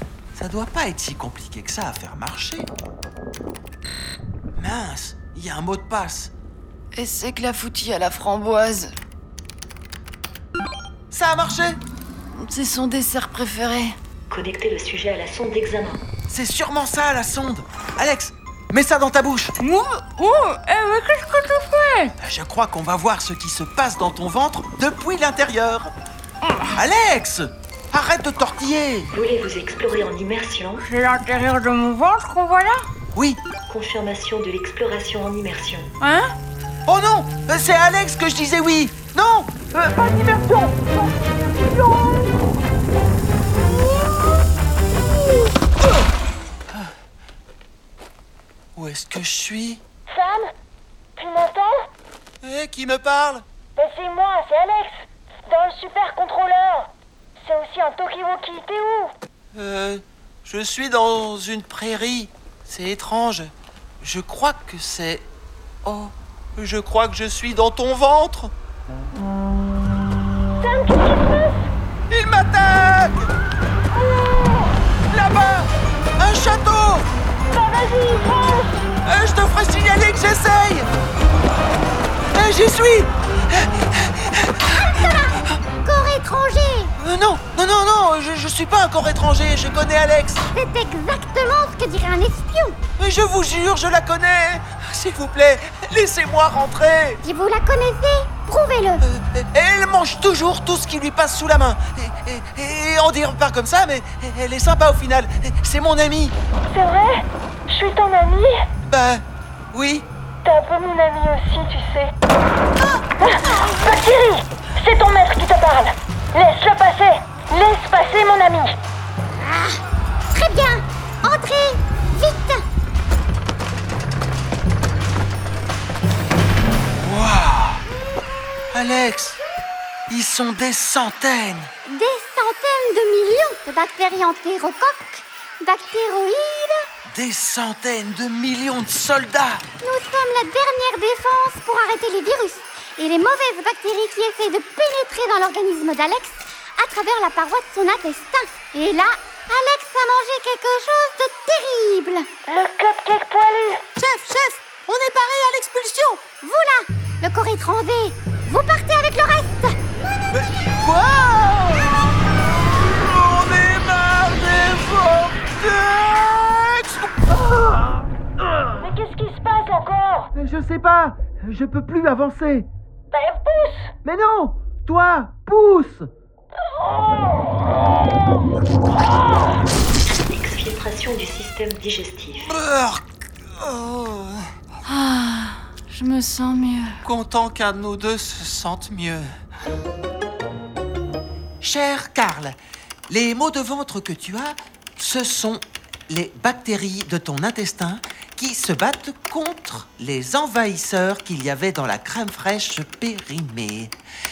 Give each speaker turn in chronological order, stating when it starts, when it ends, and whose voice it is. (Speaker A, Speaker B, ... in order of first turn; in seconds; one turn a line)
Speaker A: 0.3-2.7
Speaker A: 4.6-6.3
Speaker B: 6.9-8.9
Speaker A: 11.1-11.8
Speaker B: 12.3-14.0
Speaker C: 14.3-16.0
Speaker A: 16.3-19.6
Speaker B: 19.6-22.1
Speaker A: 22.2-25.9
Speaker A: 26.7-29.1
Speaker C: 29.1-30.9
Speaker B: 30.8-32.8
Speaker A: 33.1-33.4
Speaker C: 33.7-35.9
Speaker B: 36.0-36.3
Speaker A: 36.9-40.9
Speaker A: 48.8-49.8
Speaker D: 50.1-50.5
Speaker D: 51.2-51.8
Speaker A: 52.4-53.5
Speaker D: 53.8-59.1
Speaker A: 59.5-65.3
Speaker A: 65.8-68.5
Speaker D: 70.6-71.7
Speaker A: 72.1-73.3
Speaker A: 75.1-77.1
Speaker D: 77.5-78.8
Speaker A: 79.0-80.9
Speaker A: 82.3-85.0
Speaker E: 84.8-86.9
Speaker A: 87.0-90.5
Speaker E: 90.5-92.8
Speaker A: 93.0-97.2
Speaker E: 97.2-99.0
Speaker A: 99.0-106.3
Speaker D: 106.7-108.6
Speaker A: 108.9-110.1
Speaker D: 110.5-112.1
Speaker D: 113.2-118.8
Speaker E: 119.4-119.8
Speaker E: 120.3-122.6
Speaker A: 127.0-127.8
Speaker A: 128.7-129.4
Speaker A: 130.1-131.7
Speaker E: 131.8-136.8
Speaker A: 137.1-139.6
Speaker E: 139.8-152.3
Speaker D: 152.5-153.8
Speaker A: 155.0-156.1
Speaker B: 155.3-156.2
Speaker E: 156.4-159.8
Speaker A: 160.3-168.9
Speaker D: 168.8-170.3
Speaker A: 170.3-172.7
Speaker D: 173.1-173.9
Speaker A: 174.0-176.1
Speaker C: 180.2-182.5
Speaker A: 182.4-183.0
Speaker A: 183.6-184.5
Speaker B: 184.8-187.0
Speaker A: 187.0-189.3
Speaker A: 191.6-204.0